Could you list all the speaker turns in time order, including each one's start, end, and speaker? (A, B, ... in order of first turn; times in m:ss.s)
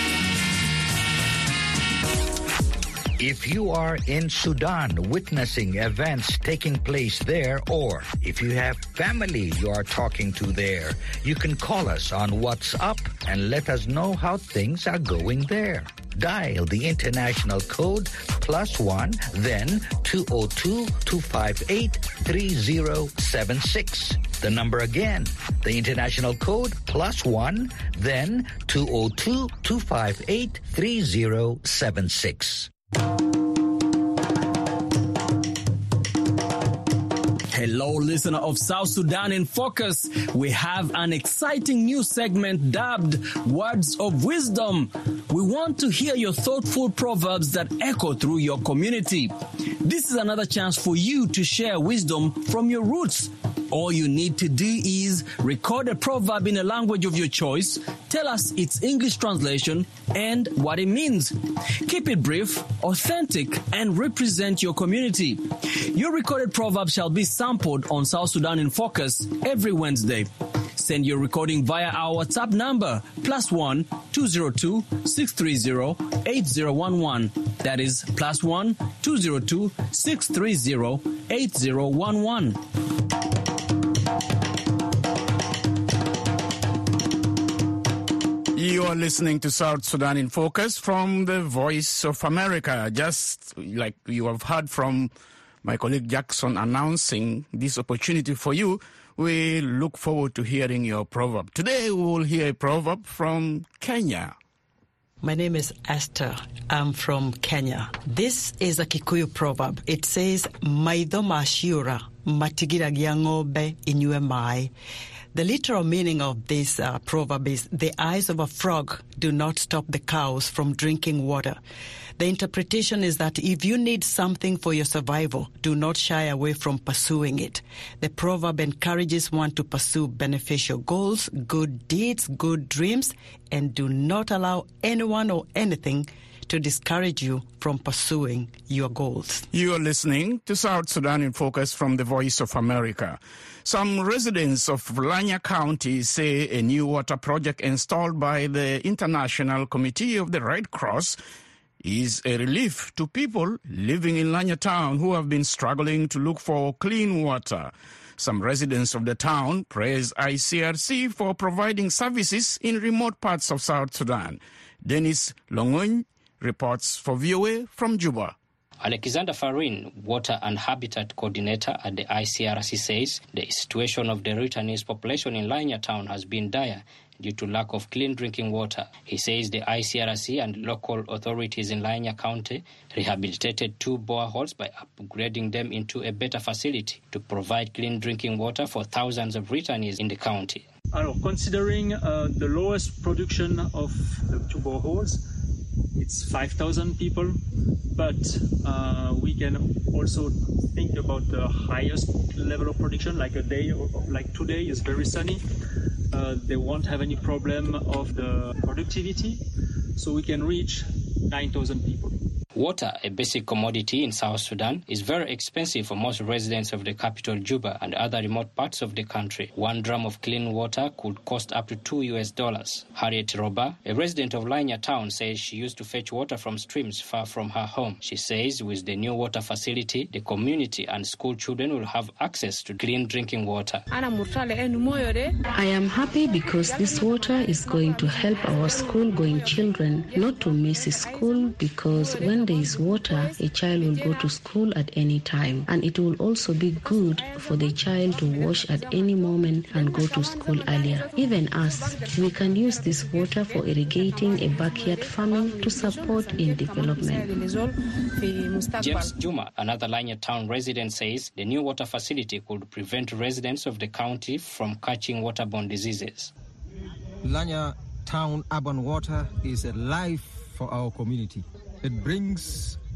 0:03.2-0:32.7 A
0:37.5-1:22.6 B
1:28.5-1:35.1 C
1:35.6-1:44.3 C
1:45.2-1:54.7 D
1:55.3-2:01.6 D
2:02.2-2:19.4 D
2:19.5-2:31.2 C
2:31.8-2:48.4 C
2:48.8-3:10.7 E
3:10.9-3:15.2 F
3:16.0-3:17.4 F
3:17.9-3:25.4 F
3:26.1-3:29.4 F
3:30.0-3:32.2 F
3:32.6-3:53.8 E
3:55.5-4:17.4 G
4:18.8-4:26.3 E
4:27.2-4:32.8 H